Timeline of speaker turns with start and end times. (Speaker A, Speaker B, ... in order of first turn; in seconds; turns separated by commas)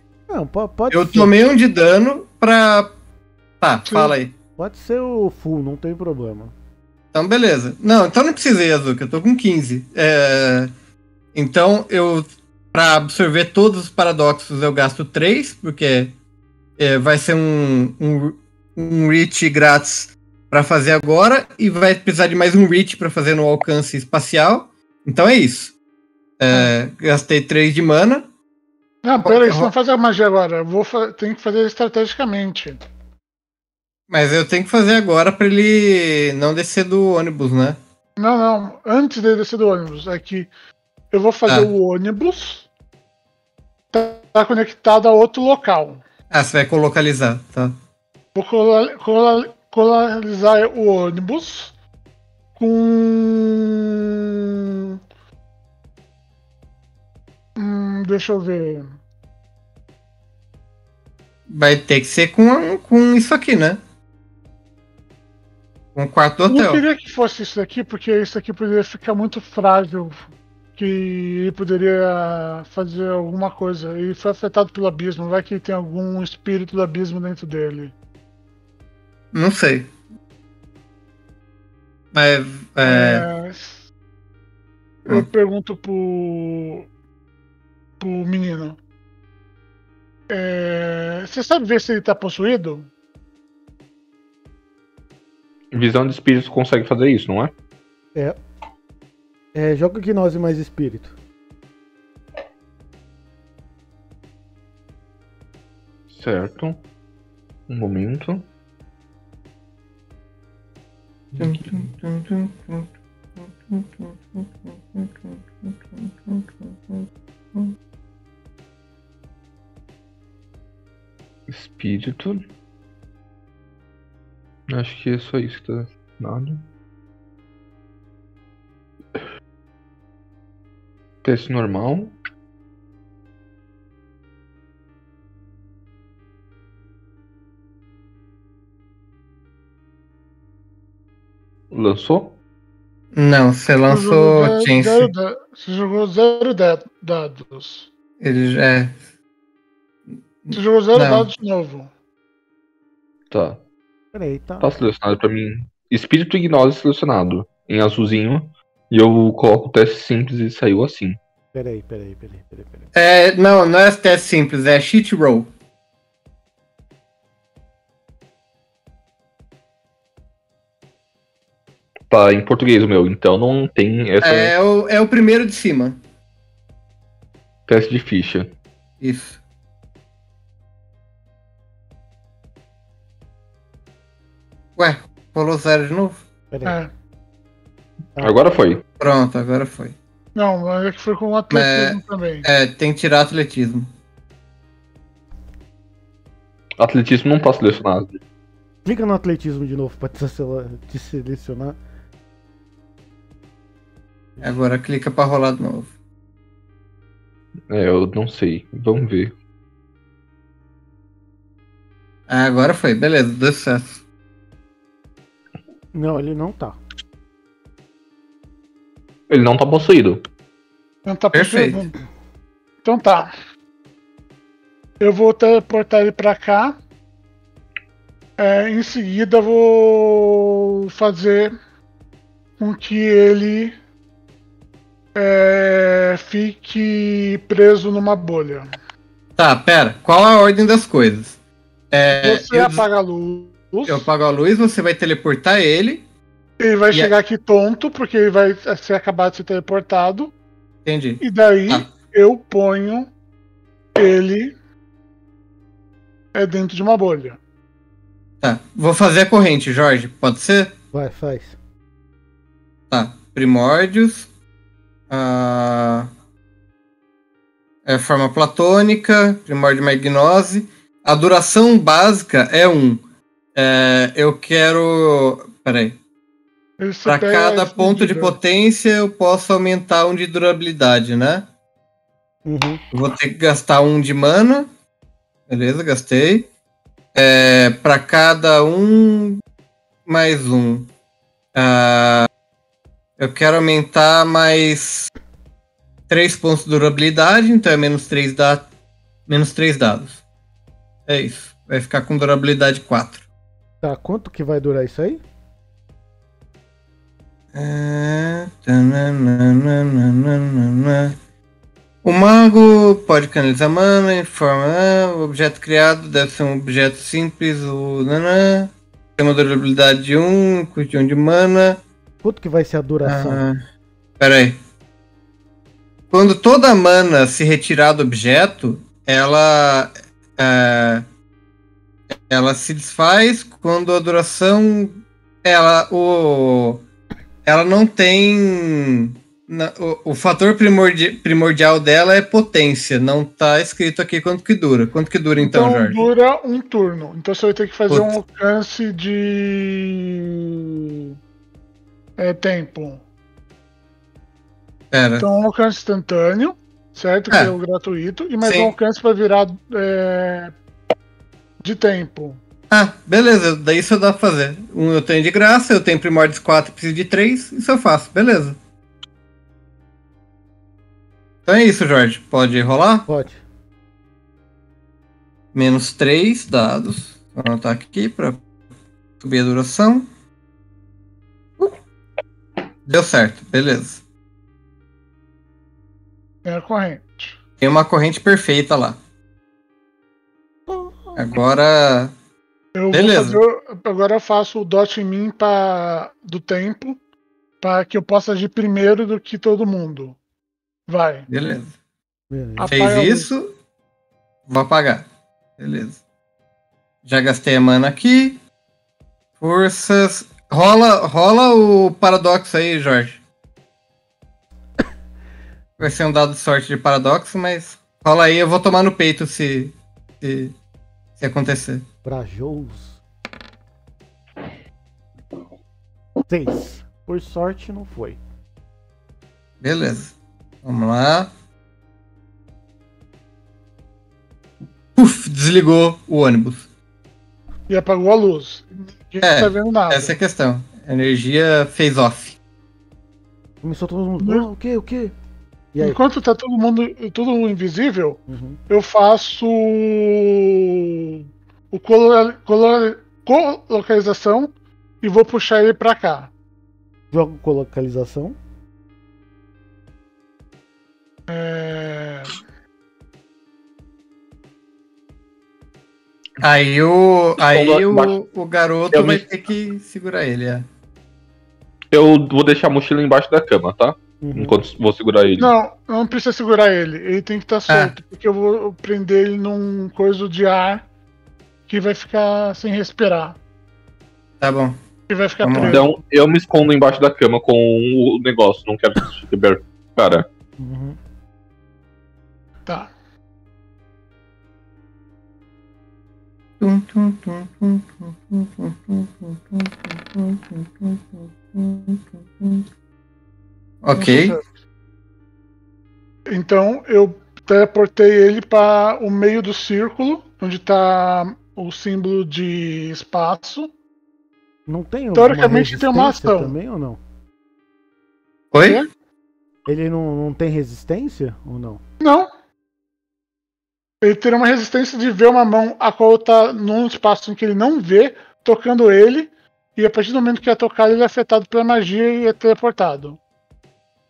Speaker A: 0.3-1.4, Speaker B: 0.9-2.9, Speaker B: 3.6-4.3, Speaker C: 3.9-4.1, Speaker A: 4.6-6.5, Speaker B: 7.1-10.7, Speaker B: 11.3-16.1, Speaker B: 16.8-25.7, Speaker B: 26.4-28.3, Speaker C: 29.0-32.8, Speaker B: 29.2-29.7, Speaker B: 34.1-37.8, Speaker C: 38.2-40.5, Speaker C: 41.1-42.7, Speaker C: 43.9-46.0, Speaker B: 46.3-47.8, Speaker C: 48.3-51.7, Speaker C: 52.6-55.0, Speaker C: 57.5-58.9, Speaker B: 61.5-63.8, Speaker B: 65.9-66.8, Speaker C: 66.5-77.9, Speaker B: 79.3-79.9, Speaker B: 82.1-83.3, Speaker C: 82.8-83.9, Speaker C: 85.0-86.9, Speaker C: 88.0-88.8, Speaker C: 90.3-92.9, Speaker D: 95.7-97.5, Speaker A: 99.5-101.1, Speaker D: 106.1-106.8, Speaker D: 107.7-108.5, Speaker D: 111.3-111.7, Speaker B: 111.4-117.7, Speaker D: 121.5-122.5, Speaker D: 124.7-126.7, Speaker D: 131.2-132.2, Speaker D: 141.7-142.4, Speaker B: 143.1-145.1, Speaker C: 143.9-147.9, Speaker B: 148.2-149.0, Speaker B: 150.4-151.3, Speaker C: 150.5-151.9, Speaker D: 153.3-153.6, Speaker A: 154.1-154.7, Speaker D: 154.6-161.2, Speaker A: 161.5-162.8, Speaker B: 162.9-165.5, Speaker D: 172.1-174.5, Speaker B: 174.2-176.0, Speaker D: 177.7-178.5, Speaker B: 179.0-179.4, Speaker B: 184.8-186.2, Speaker A: 186.5-186.8, Speaker C: 186.6-186.9, Speaker D: 188.2-188.8, Speaker B: 189.0-189.9, Speaker C: 190.3-192.5, Speaker B: 191.5-193.9, Speaker D: 196.8-198.2, Speaker A: 198.8-201.8, Speaker B: 204.4-205.9, Speaker D: 207.7-209.3, Speaker B: 212.3-214.0, Speaker A: 215.9-216.8, Speaker D: 219.3-220.2, Speaker C: 221.1-221.9, Speaker B: 221.3-221.8, Speaker C: 222.8-223.3, Speaker C: 225.0-226.8, Speaker C: 228.4-231.5, Speaker C: 232.6-233.7, Speaker C: 235.1-238.7, Speaker B: 239.4-241.3, Speaker B: 241.9-242.8, Speaker C: 242.1-244.1, Speaker B: 243.9-246.0, Speaker C: 246.6-250.3, Speaker B: 250.8-251.9, Speaker C: 251.2-253.1, Speaker C: 254.0-254.5, Speaker C: 256.3-257.4, Speaker B: 258.4-260.7, Speaker A: 260.9-261.6, Speaker B: 262.9-264.3, Speaker B: 265.1-266.1, Speaker B: 267.9-273.0, Speaker B: 273.5-276.0, Speaker C: 276.8-278.4, Speaker B: 277.1-281.5, Speaker A: 282.4-282.8, Speaker B: 282.9-284.7, Speaker B: 285.5-286.5, Speaker B: 287.1-289.4, Speaker B: 290.1-290.9, Speaker B: 291.5-292.3, Speaker B: 293.2-295.1, Speaker B: 296.1-298.6, Speaker B: 299.3-300.2, Speaker B: 301.1-303.2, Speaker A: 303.8-305.2, Speaker B: 307.5-311.1, Speaker B: 312.0-321.8, Speaker A: 322.2-323.4, Speaker B: 323.0-323.6, Speaker B: 324.2-324.6, Speaker B: 326.1-331.0, Speaker B: 332.1-336.8, Speaker B: 337.4-346.0, Speaker C: 345.4-351.1, Speaker B: 347.9-348.1, Speaker C: 352.2-353.0, Speaker B: 354.9-355.2, Speaker C: 355.2-360.5, Speaker B: 358.4-358.7, Speaker C: 361.6-362.4, Speaker B: 362.7-368.6, Speaker B: 371.4-373.1, Speaker A: 373.1-373.4, Speaker B: 375.5-378.4, Speaker B: 379.2-380.1, Speaker B: 382.9-384.0, Speaker C: 386.4-387.4, Speaker B: 387.6-389.0, Speaker A: 390.7-391.2, Speaker B: 391.1-392.1, Speaker C: 392.7-397.0, Speaker B: 392.9-393.4, Speaker C: 397.6-400.2, Speaker C: 400.9-401.3, Speaker B: 401.3-401.7, Speaker A: 402.3-402.8, Speaker C: 402.6-403.3, Speaker B: 402.7-403.5, Speaker B: 404.5-405.0, Speaker B: 405.6-406.0, Speaker B: 407.0-408.4, Speaker B: 409.4-413.2, Speaker B: 415.8-420.5, Speaker B: 421.2-421.8, Speaker A: 422.0-423.0, Speaker A: 426.3-428.2, Speaker B: 429.6-431.3, Speaker B: 434.9-436.6, Speaker C: 437.7-440.1, Speaker B: 439.2-442.4, Speaker A: 443.6-445.1, Speaker C: 445.8-451.2, Speaker A: 448.3-448.6, Speaker C: 451.7-454.5, Speaker C: 455.0-456.3, Speaker A: 457.1-458.4, Speaker C: 461.3-462.4, Speaker B: 466.4-470.6, Speaker D: 467.4-468.1, Speaker D: 468.9-469.2, Speaker D: 471.9-475.5, Speaker A: 474.2-474.6, Speaker C: 475.4-480.9, Speaker B: 477.7-477.9, Speaker C: 481.7-483.4, Speaker B: 484.4-484.8, Speaker C: 485.1-486.0, Speaker B: 485.4-485.8, Speaker D: 485.7-490.2, Speaker A: 490.6-491.0, Speaker C: 492.6-492.9, Speaker B: 496.6-502.6, Speaker B: 503.8-504.4, Speaker C: 503.9-504.4, Speaker C: 506.3-513.7, Speaker A: 514.7-517.0, Speaker C: 515.1-516.5, Speaker B: 518.5-518.8, Speaker C: 518.5-518.9, Speaker A: 519.7-521.8, Speaker C: 522.0-522.3, Speaker C: 524.0-533.2